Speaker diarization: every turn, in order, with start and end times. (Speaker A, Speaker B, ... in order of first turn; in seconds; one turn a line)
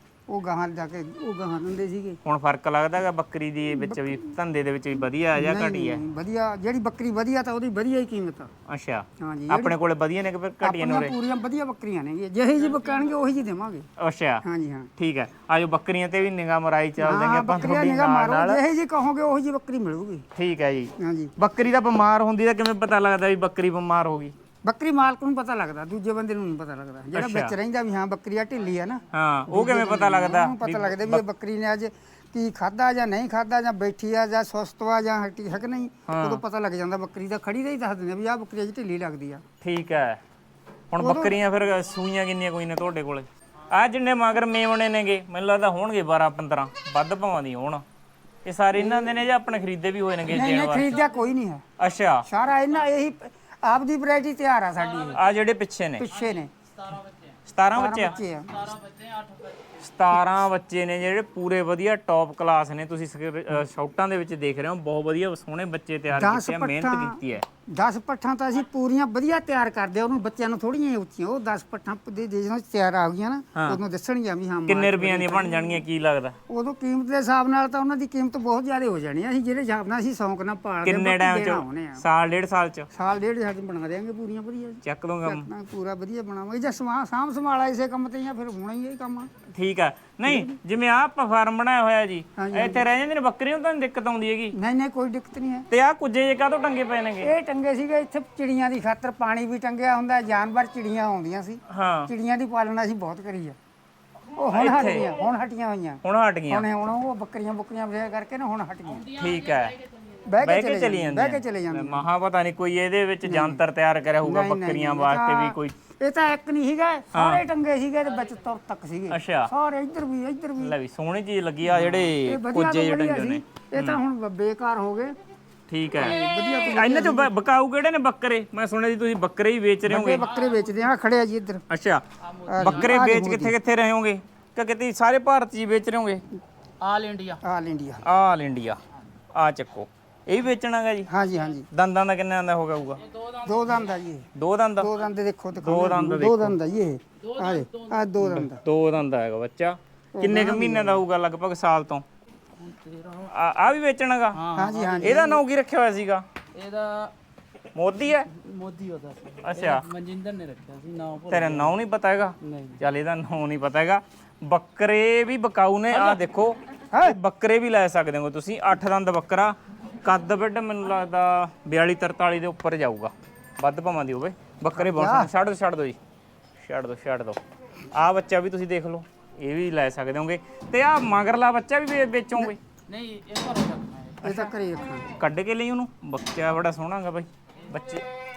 Speaker A: 0.3-2.2
Speaker B: 2.2-6.0
Speaker A: 3.7-4.3
Speaker A: 5.3-8.5
Speaker B: 8.7-11.2
Speaker A: 9.2-9.8
Speaker A: 10.6-13.9
Speaker B: 14.0-14.4
Speaker A: 14.4-14.9
Speaker B: 15.0-18.6
Speaker A: 17.0-20.3
Speaker B: 20.4-24.3
Speaker A: 21.0-21.3
Speaker A: 24.6-39.4
Speaker B: 27.1-27.6
Speaker B: 29.1-31.2
Speaker B: 36.1-36.4
Speaker B: 39.6-40.2
Speaker B: 40.9-47.8
Speaker A: 41.0-41.4
Speaker B: 48.5-51.0
Speaker A: 48.8-49.1
Speaker A: 50.3-51.6
Speaker B: 51.8-52.3
Speaker A: 52.2-55.2
Speaker B: 55.1-56.1
Speaker A: 56.0-56.5
Speaker C: 56.2-57.4
Speaker B: 57.5-58.2
Speaker A: 57.7-58.7
Speaker C: 58.5-59.8
Speaker B: 59.8-67.5
Speaker A: 66.1-75.8
Speaker B: 74.7-76.4
Speaker A: 76.5-82.0
Speaker B: 80.8-82.9
Speaker A: 82.9-89.3
Speaker B: 84.8-85.5
Speaker B: 89.5-94.6
Speaker A: 92.4-92.9
Speaker A: 94.5-95.7
Speaker B: 95.7-97.3
Speaker A: 97.2-103.6
Speaker B: 101.7-102.1
Speaker A: 104.4-109.1
Speaker B: 104.5-105.1
Speaker B: 106.0-106.7
Speaker C: 109.0-109.8
Speaker B: 109.1-109.8
Speaker A: 110.2-112.0
Speaker B: 110.4-115.8
Speaker A: 113.2-113.6
Speaker A: 114.2-120.8
Speaker B: 117.1-117.5
Speaker B: 119.1-119.5
Speaker B: 120.6-124.0
Speaker A: 121.7-125.2
Speaker B: 125.7-130.3
Speaker A: 126.0-127.3
Speaker A: 129.9-131.6
Speaker C: 130.1-130.8
Speaker B: 131.7-132.1
Speaker C: 132.3-133.0
Speaker A: 132.5-133.6
Speaker B: 132.6-136.2
Speaker C: 136.8-137.4
Speaker A: 137.4-138.1
Speaker B: 138.0-138.8
Speaker B: 139.3-141.1
Speaker A: 141.1-141.7
Speaker B: 141.7-143.0
Speaker A: 143.4-148.6
Speaker B: 144.3-144.9
Speaker B: 145.6-146.6
Speaker C: 147.3-148.0
Speaker B: 148.2-152.0
Speaker A: 150.2-151.0
Speaker C: 152.6-153.3
Speaker B: 153.3-156.2
Speaker C: 154.3-155.2
Speaker A: 154.5-155.4
Speaker C: 156.5-157.1
Speaker B: 157.8-158.3
Speaker C: 158.3-161.8
Speaker B: 159.4-159.9
Speaker B: 161.3-176.0
Speaker C: 162.4-162.8
Speaker A: 174.7-175.3
Speaker B: 176.6-177.4
Speaker B: 177.9-182.6
Speaker C: 182.9-184.2
Speaker A: 184.2-185.1
Speaker B: 184.2-184.5
Speaker B: 185.1-188.1